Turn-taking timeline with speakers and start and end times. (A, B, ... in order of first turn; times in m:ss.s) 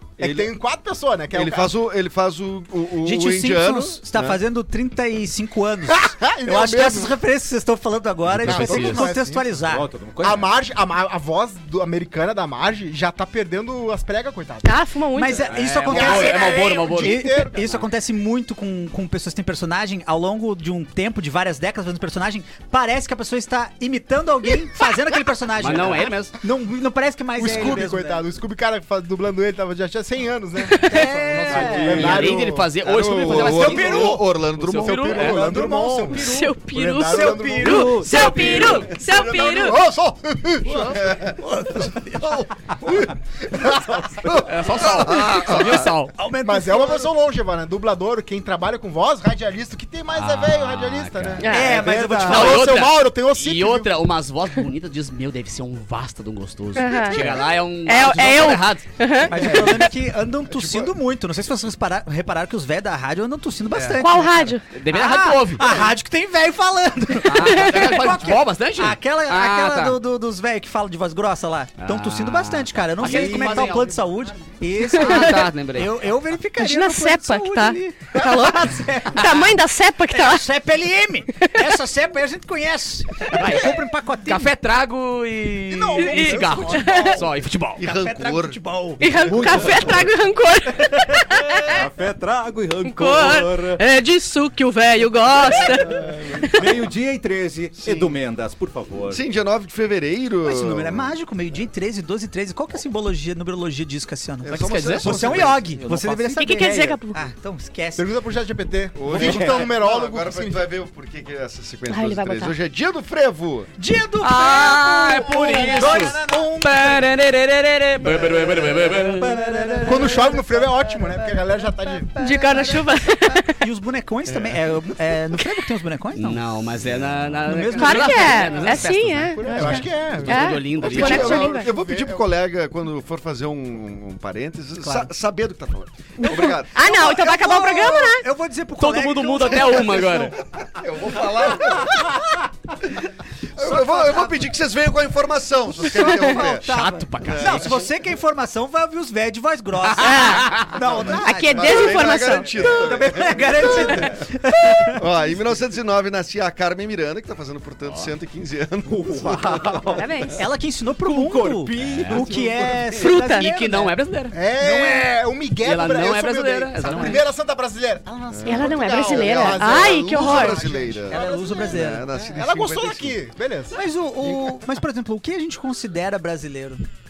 0:00.2-0:01.7 A
0:00.2-0:00.5 B
0:01.3-0:04.4 B
0:03.0-0:09.9 C
0:06.0-0:07.2 A
0:08.3-0:09.1 D
0:08.4-0:09.5 A
0:09.6-0:10.5 E
0:10.2-0:14.7 A
0:14.6-0:15.5 F
0:15.1-0:28.2 C
0:15.4-0:17.6 D
0:15.9-0:17.8 A
0:25.6-0:26.3 D
0:27.4-0:34.2 A
0:30.6-0:31.1 F
0:30.8-0:32.4 C
0:31.5-0:32.0 E
0:31.7-0:35.6 D
0:32.0-0:35.3 B
0:33.6-0:34.1 C
0:34.8-0:41.2 A
0:35.1-0:38.8 C
0:36.1-0:39.8 F
0:38.1-0:39.0 E
0:38.2-0:39.1 D
0:40.6-0:43.1 B
0:40.7-0:42.4 C
0:42.8-0:44.2 A
0:44.1-0:45.9 B
0:44.4-0:46.1 D
0:46.1-0:47.1 C
0:46.4-0:53.9 A
0:50.1-0:51.5 D
0:51.4-0:51.8 F
0:51.4-0:52.8 C
0:52.2-0:58.9 D
0:56.8-0:59.9 F
0:59.3-1:19.5 C
0:59.4-0:59.6 A
1:00.5-1:00.9 B
1:04.0-1:04.6 F
1:04.7-1:05.7 D
1:07.3-1:10.0 D
1:07.4-1:07.9 F
1:11.8-1:14.0 D
1:13.1-1:13.7 E
1:14.9-1:15.4 F
1:14.9-1:15.9 D
1:16.6-1:20.5 F
1:20.1-1:24.5 C
1:21.4-1:21.7 F
1:23.3-1:27.8 D
1:25.7-1:27.3 A
1:25.9-1:27.2 F
1:26.5-1:26.8 C
1:27.8-1:30.0 B
1:27.8-1:29.6 C
1:29.0-1:31.9 F
1:29.3-1:30.1 E
1:31.7-1:33.8 E
1:32.8-1:36.8 F
1:35.6-1:36.4 B
1:36.5-1:39.2 E
1:37.8-1:38.2 B
1:39.1-1:41.1 B
1:40.4-1:48.1 C
1:44.4-1:45.8 B
1:44.5-1:45.5 D
1:45.8-1:46.4 E
1:46.4-1:47.2 F
1:48.0-1:50.6 A
1:48.9-1:53.7 B
1:49.1-1:49.6 E
1:51.9-1:52.5 F
1:53.8-1:57.1 C
1:54.2-1:59.4 D
1:59.0-2:06.6 C
1:59.9-2:02.1 A
2:02.2-2:03.6 F
2:04.3-2:04.6 B
2:06.2-2:11.4 D
2:06.8-2:07.4 B
2:07.4-2:09.9 C
2:07.7-2:11.7 F
2:09.4-2:12.2 A
2:10.7-2:17.2 B
2:14.8-2:15.1 C
2:16.2-2:18.2 F
2:16.3-2:20.3 C
2:18.8-2:20.4 D
2:19.5-2:23.0 B
2:23.5-2:27.9 B
2:23.6-2:24.5 C
2:25.8-2:32.0 C
2:26.6-2:27.8 D
2:30.0-2:32.9 F
2:30.1-2:30.6 D
2:30.8-2:34.2 B
2:32.5-2:35.0 C
2:33.7-2:34.1 F
2:34.9-2:39.8 B
2:37.9-2:38.1 D
2:38.9-2:40.1 E
2:39.9-2:40.4 F
2:40.4-2:43.9 C
2:41.0-2:42.8 E
2:41.8-2:43.1 B
2:43.0-2:43.5 F
2:43.2-2:47.2 D
2:44.3-2:51.5 A
2:46.9-2:47.2 C
2:48.3-2:53.2 B
2:48.4-2:50.6 F
2:51.1-2:52.1 C
2:52.2-2:53.8 A
2:53.7-2:56.8 C